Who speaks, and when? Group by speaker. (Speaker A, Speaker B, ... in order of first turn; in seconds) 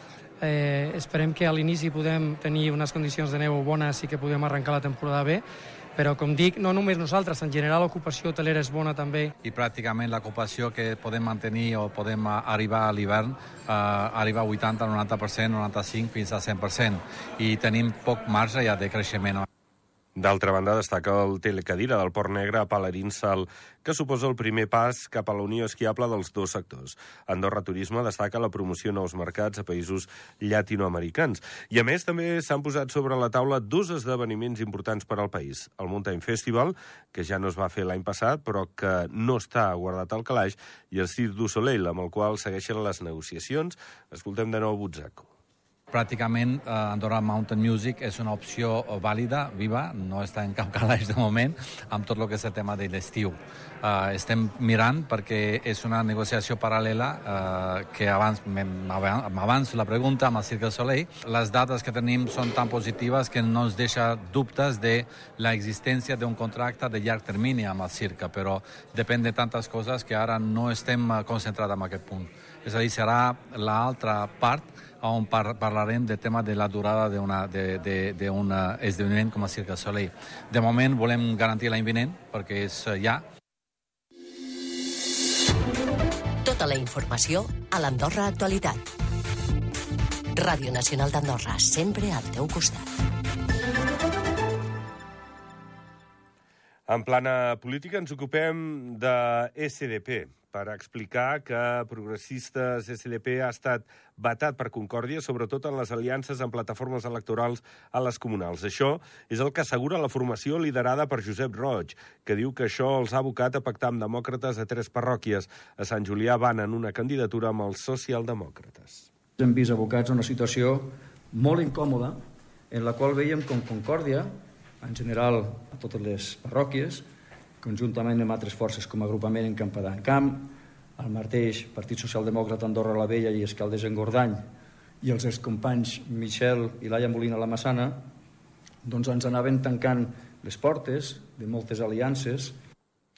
Speaker A: 0.4-5.4, 6.0-9.3
Speaker B: 9.4-19.4, 45.9-83.2
Speaker C: 20.2-45.3, 96.9-119.1
Speaker D: 86.5-88.6
Speaker E: 119.4-122.2, 122.7-124.3, 124.8-127.0, 127.6-134.4, 135.0-138.0, 138.8-142.5